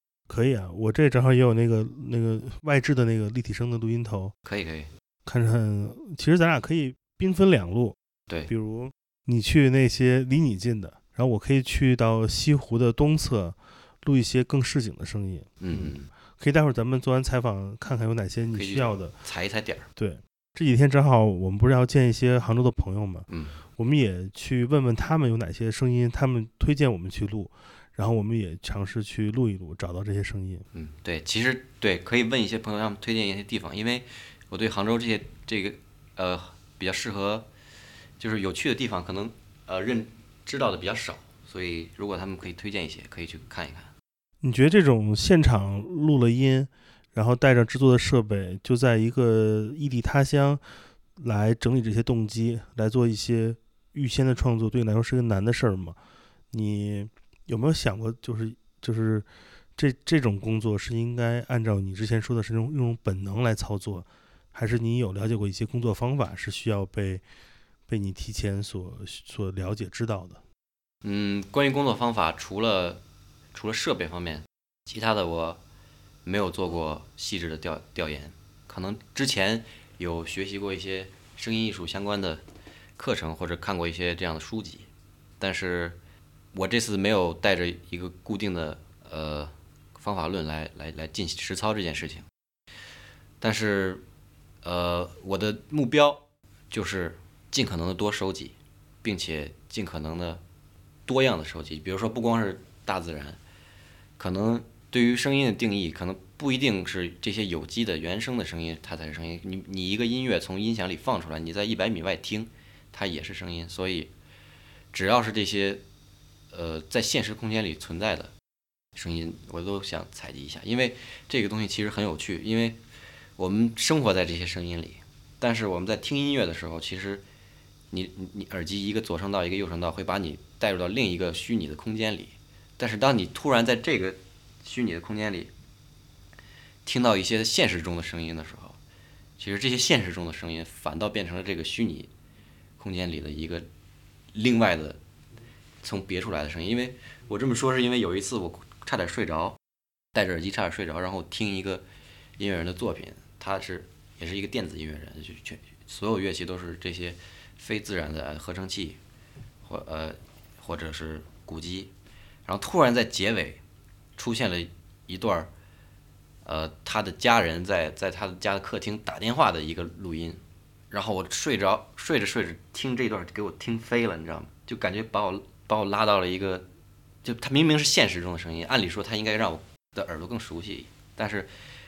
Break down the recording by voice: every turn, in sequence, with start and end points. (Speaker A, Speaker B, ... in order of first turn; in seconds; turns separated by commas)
Speaker A: 0.3-4.3, Speaker B: 4.4-4.9, Speaker A: 5.2-8.0, Speaker A: 8.5-19.1, Speaker B: 15.6-16.1, Speaker B: 18.5-19.9, Speaker A: 19.9-30.6, Speaker B: 23.3-23.6, Speaker B: 30.7-37.5, Speaker B: 38.2-43.9, Speaker A: 44.4-50.6, Speaker A: 51.2-56.0, Speaker A: 56.5-67.2, Speaker A: 67.9-70.4, Speaker B: 71.0-73.0, Speaker B: 73.5-75.6, Speaker B: 76.2-82.4, Speaker B: 83.0-84.9, Speaker B: 85.4-86.0, Speaker B: 86.5-92.2, Speaker B: 93.4-94.0, Speaker B: 94.6-100.4, Speaker B: 101.1-103.4, Speaker B: 104.2-114.1, Speaker B: 114.9-115.8, Speaker B: 116.5-118.3, Speaker B: 118.9-122.8, Speaker B: 123.4-127.2, Speaker B: 127.9-135.5, Speaker B: 136.8-138.8, Speaker B: 139.4-142.1, Speaker B: 142.8-143.7, Speaker B: 144.3-145.0, Speaker B: 145.8-149.6, Speaker B: 150.1-151.8, Speaker B: 152.4-159.0, Speaker B: 159.6-161.9, Speaker B: 162.4-163.6, Speaker B: 164.2-165.5, Speaker B: 166.4-176.7, Speaker B: 177.2-181.5